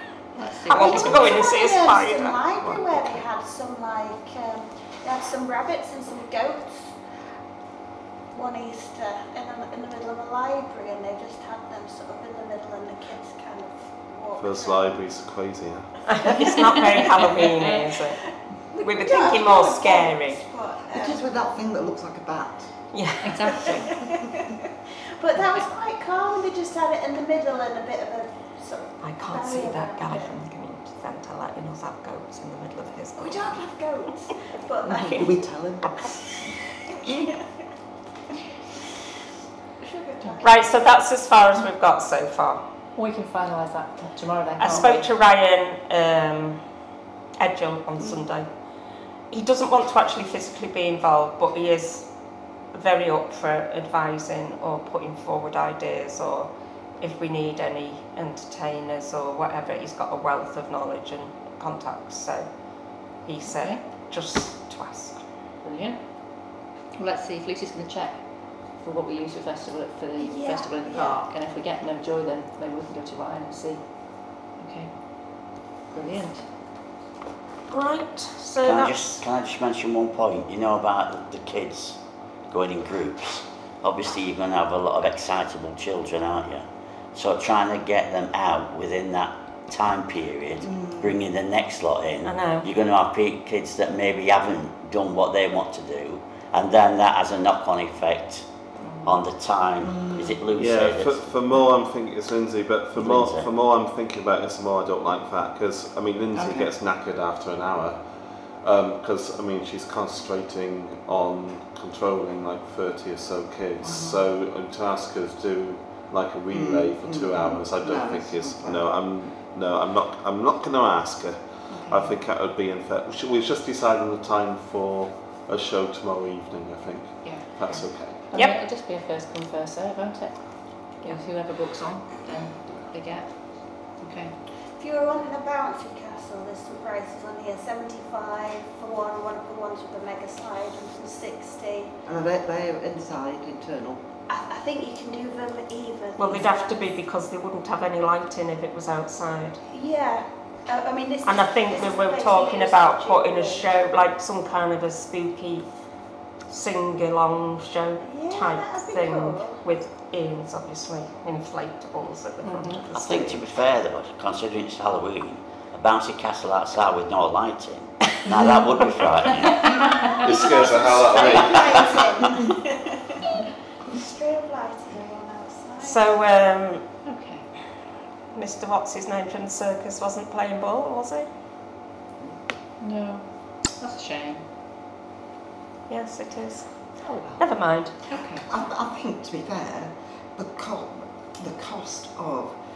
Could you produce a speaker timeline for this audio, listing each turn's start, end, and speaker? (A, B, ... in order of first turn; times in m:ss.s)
0:00.3-0:01.5 A
0:00.7-0:02.4 B
0:00.7-0:07.0 C
0:02.6-0:03.2 D
0:08.3-0:14.9 C
0:14.4-0:15.9 D
0:16.1-0:18.2 B
0:18.7-0:21.2 C
0:18.8-0:20.4 B
0:20.9-0:22.7 E
0:22.9-0:23.4 B
0:23.2-0:24.0 A
0:23.9-0:24.5 C
0:25.2-0:30.4 C
0:29.0-0:33.6 B
0:33.2-0:35.4 C
0:34.8-0:36.0 E
0:39.8-0:40.7 C
0:40.4-0:42.6 B
0:42.9-0:45.1 A
0:44.6-0:46.6 B
0:47.4-0:48.5 B
0:49.3-0:52.1 B
0:52.7-1:05.2 B
1:03.4-1:03.8 A
1:05.6-1:16.5 A
1:10.2-1:11.2 C
1:17.7-1:19.2 B
1:18.6-1:38.5 F
1:30.6-1:31.2 E
1:32.2-1:32.7 B
1:38.8-1:39.1 A
1:39.0-1:41.3 F
1:39.8-1:40.4 E
1:40.5-2:08.2 D
1:43.0-1:43.5 F
1:46.3-1:46.7 E
1:53.8-1:54.2 E
1:56.5-1:58.9 E
2:01.7-2:02.2 A
2:07.2-2:14.4 A
2:08.3-2:08.6 B
2:14.7-2:21.9 C
2:22.0-2:24.0 E
2:24.3-2:26.8 C
2:26.2-2:29.6 B
2:29.7-2:33.7 C
2:31.2-2:35.7 B
2:36.5-2:43.3 B
2:38.0-2:39.6 C
2:42.4-2:42.8 A
2:42.9-2:49.6 F
2:50.2-2:52.0 D
2:50.3-2:53.2 C
2:53.9-2:56.0 C
2:55.8-2:56.8 B
2:57.0-2:57.5 A
2:58.3-3:01.3 B
3:02.8-3:04.5 A
3:05.9-3:06.8 B
3:07.0-3:07.4 A
3:07.4-3:07.9 B
3:08.1-3:08.5 A
3:08.4-3:12.6 E